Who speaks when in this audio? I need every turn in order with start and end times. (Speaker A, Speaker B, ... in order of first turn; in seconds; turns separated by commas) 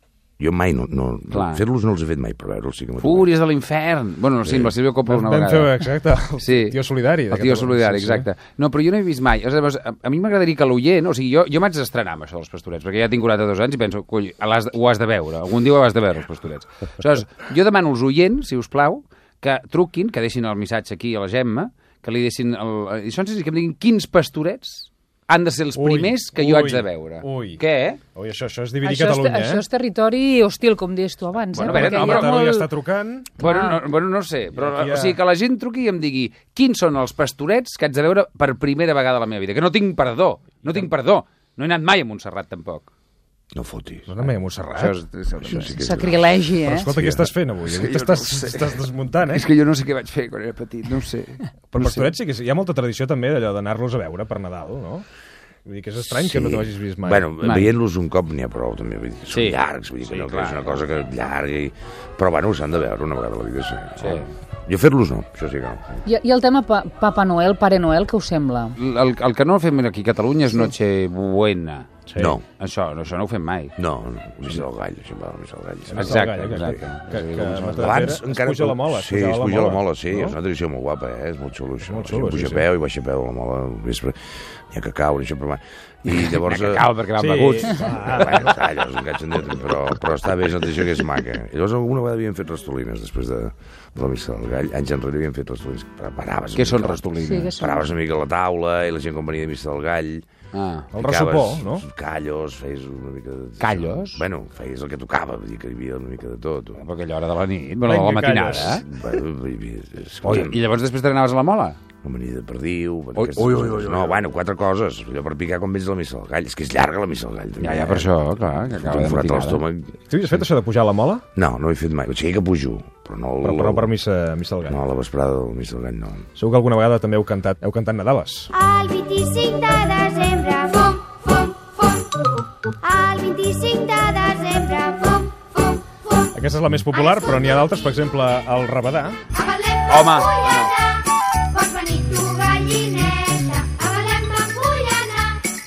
Speaker A: 0.4-3.3, Speaker B: 1.3-1.6, Speaker B: 3.0-5.8, Speaker A: 4.4-4.7, Speaker C: 5.1-8.3, Speaker B: 6.4-6.8, Speaker B: 7.3-28.0, Speaker C: 25.7-27.6, Speaker C: 28.1-29.6, Speaker D: 28.8-32.7, Speaker B: 31.5-32.5, Speaker C: 31.5-33.3, Speaker B: 33.4-42.9, Speaker D: 33.4-33.8, Speaker C: 34.5-35.2, Speaker C: 40.6-40.9, Speaker A: 43.5-44.1, Speaker C: 44.1-45.0, Speaker B: 44.7-46.1, Speaker A: 45.4-46.3, Speaker D: 45.6-46.9, Speaker C: 46.6-49.5, Speaker A: 47.0-47.2, Speaker B: 47.6-52.1, Speaker C: 51.7-55.0, Speaker C: 55.7-57.3, Speaker A: 56.1-66.0, Speaker B: 57.4-57.7, Speaker B: 59.3-60.8, Speaker B: 64.0-64.3, Speaker D: 66.1-68.8, Speaker B: 68.8-71.9, Speaker C: 72.1-72.4, Speaker A: 72.2-72.4, Speaker B: 72.6-73.8, Speaker A: 73.8-76.8, Speaker C: 75.9-80.4, Speaker B: 76.0-78.2, Speaker A: 77.8-86.9, Speaker C: 81.8-82.7, Speaker B: 86.1-88.6, Speaker C: 87.2-88.5, Speaker A: 88.2-100.2, Speaker B: 96.5-97.6, Speaker D: 97.2-97.8, Speaker B: 100.5-100.9, Speaker C: 100.9-101.8, Speaker A: 100.9-106.8, Speaker B: 103.6-104.2, Speaker B: 106.8-108.8, Speaker C: 107.8-108.8, Speaker A: 108.7-110.6, Speaker B: 110.2-111.8, Speaker A: 112.0-118.1, Speaker B: 113.2-114.2, Speaker B: 117.6-119.6, Speaker A: 118.7-120.0, Speaker C: 120.1-121.2, Speaker A: 121.4-123.9, Speaker C: 123.4-124.8, Speaker A: 124.7-126.3, Speaker C: 126.4-128.5, Speaker E: 128.6-131.0, Speaker E: 132.8-135.8, Speaker C: 136.3-139.2, Speaker E: 139.4-140.2, Speaker B: 139.9-140.7, Speaker E: 141.5-145.3